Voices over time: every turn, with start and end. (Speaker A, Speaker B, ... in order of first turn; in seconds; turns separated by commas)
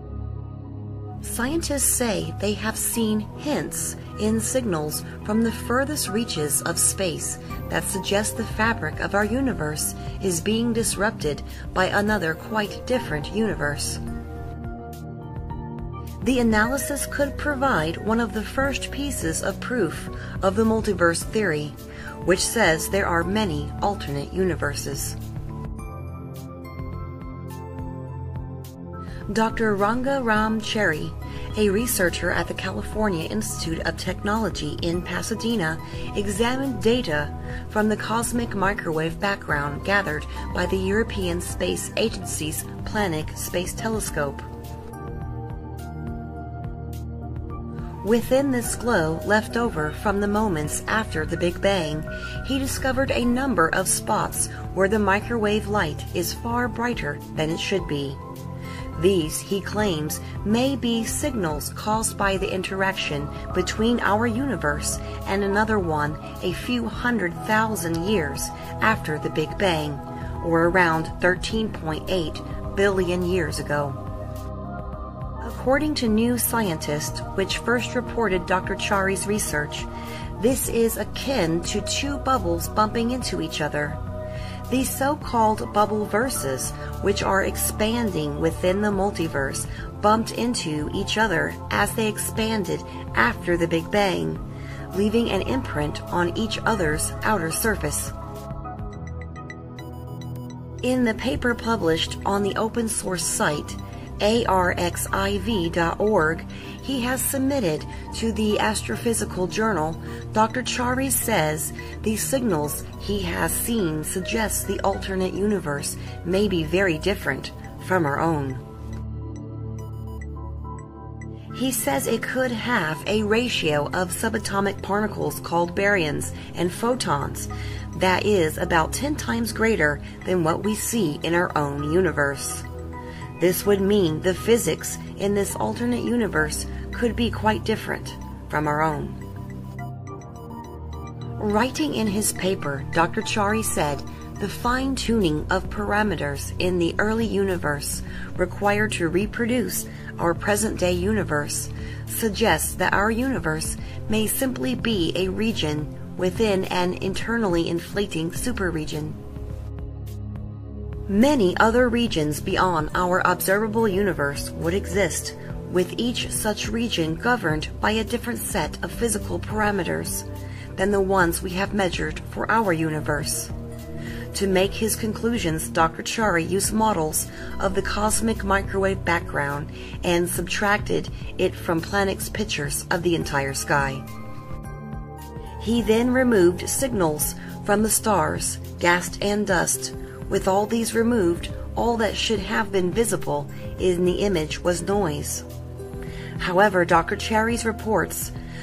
Speaker A: 1.2-14.0, Speaker A: 16.2-25.2, Speaker A: 29.3-44.5, Speaker A: 48.0-58.2, Speaker A: 59.0-74.0, Speaker A: 75.4-84.0, Speaker A: 84.7-98.1, Speaker A: 100.8-118.6, Speaker A: 121.5-132.7, Speaker A: 133.4-139.2, Speaker A: 141.4-159.2, Speaker A: 161.1-173.5, Speaker A: 174.3-184.1, Speaker A: 185.6-195.5, Speaker A: 196.4-198.3